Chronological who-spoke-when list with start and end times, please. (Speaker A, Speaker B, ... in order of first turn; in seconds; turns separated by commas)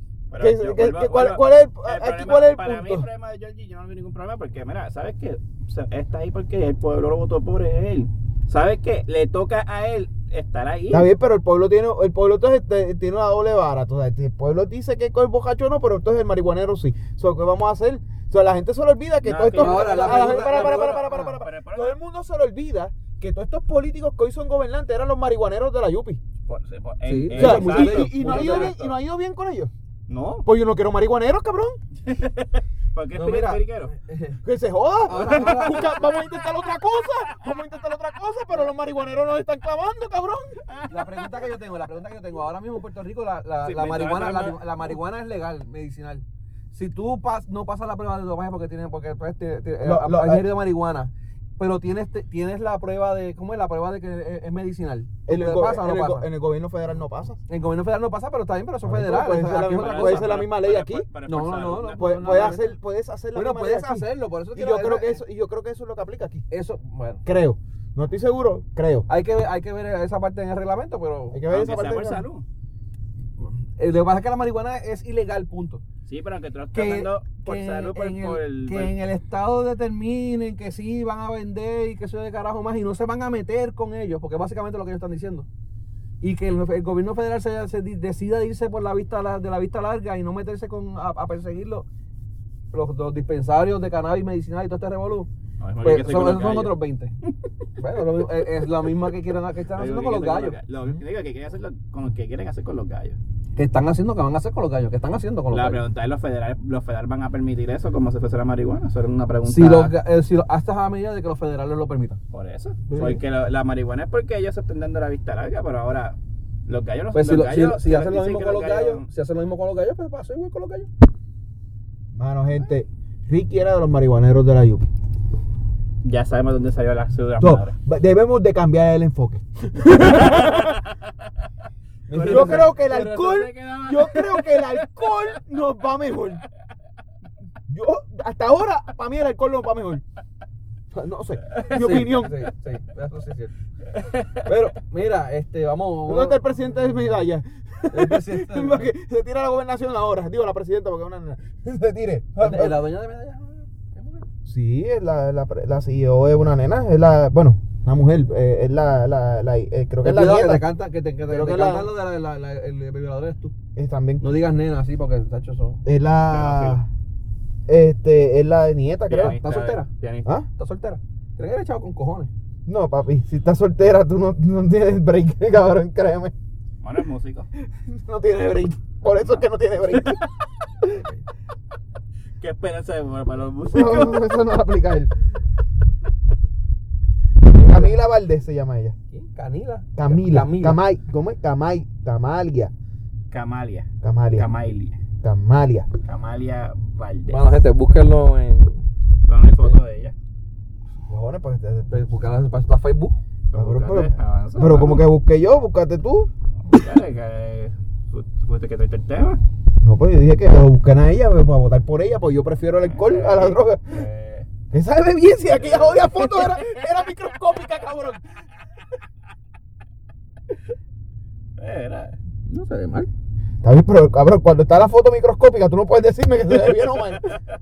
Speaker A: 0.3-11.1, Speaker B: 0.4-3.1, Speaker B: 10.9-26.2, Speaker A: 19.2-22.0, Speaker C: 19.6-21.4, Speaker A: 26.5-28.9, Speaker C: 27.0-28.8, Speaker B: 27.3-29.7, Speaker A: 30.1-30.5, Speaker B: 30.4-31.8, Speaker A: 32.0-33.9, Speaker C: 33.1-34.4, Speaker B: 34.4-40.6, Speaker C: 35.1-36.0, Speaker A: 40.7-41.2, Speaker C: 40.9-56.3, Speaker A: 43.6-44.9, Speaker B: 49.8-50.5, Speaker B: 55.3-57.4, Speaker C: 57.5-60.3, Speaker B: 58.8-61.1, Speaker A: 59.6-62.6, Speaker C: 61.3-62.7, Speaker B: 62.0-66.4, Speaker C: 63.3-65.2, Speaker C: 66.5-67.2, Speaker B: 67.2-69.1, Speaker C: 69.1-71.4, Speaker B: 71.3-72.2, Speaker A: 71.5-72.5, Speaker C: 73.7-75.8, Speaker A: 76.1-79.0, Speaker C: 76.7-85.5, Speaker C: 86.2-91.9, Speaker C: 92.7-95.3, Speaker A: 95.6-96.8, Speaker C: 95.8-97.1, Speaker C: 97.8-100.6, Speaker A: 99.7-103.2, Speaker C: 103.6-105.8, Speaker A: 105.5-109.9, Speaker C: 109.4-112.2, Speaker A: 112.3-119.1, Speaker B: 112.9-113.2, Speaker C: 117.1-120.9, Speaker B: 122.2-124.9, Speaker A: 126.0-127.8, Speaker B: 127.4-130.8, Speaker A: 130.0-130.8, Speaker B: 132.1-136.4, Speaker A: 132.1-134.8, Speaker C: 132.1-132.8, Speaker B: 137.7-140.0, Speaker B: 140.9-142.5, Speaker C: 141.7-143.5, Speaker A: 143.9-144.4, Speaker C: 144.4-146.4, Speaker B: 146.1-152.8, Speaker C: 147.9-148.9, Speaker C: 152.4-154.3, Speaker B: 154.4-160.7, Speaker C: 160.0-163.6, Speaker B: 161.3-161.9, Speaker B: 163.8-164.2, Speaker C: 164.2-165.8, Speaker B: 165.8-166.9, Speaker A: 166.3-166.8, Speaker B: 167.7-169.4, Speaker A: 169.1-170.3, Speaker C: 169.2-169.9, Speaker C: 170.6-172.3, Speaker B: 172.7-176.3, Speaker A: 176.8-177.5, Speaker B: 177.7-180.2, Speaker A: 182.4-184.4, Speaker B: 183.7-185.1, Speaker C: 187.5-188.0, Speaker B: 187.6-188.9, Speaker C: 189.1-190.8, Speaker B: 190.0-192.7, Speaker A: 193.3-195.0, Speaker B: 194.0-194.5, Speaker B: 195.2-195.9, Speaker A: 196.1-197.5, Speaker C: 197.3-198.9, Speaker A: 199.3-200.2, Speaker B: 201.1-201.9, Speaker C: 201.9-203.2, Speaker A: 203.5-205.1, Speaker B: 203.5-206.3, Speaker A: 206.7-209.4, Speaker B: 209.8-214.1, Speaker A: 212.8-214.5, Speaker B: 214.7-218.4, Speaker A: 215.5-216.8, Speaker A: 221.6-222.2, Speaker C: 222.5-223.1, Speaker B: 223.6-227.4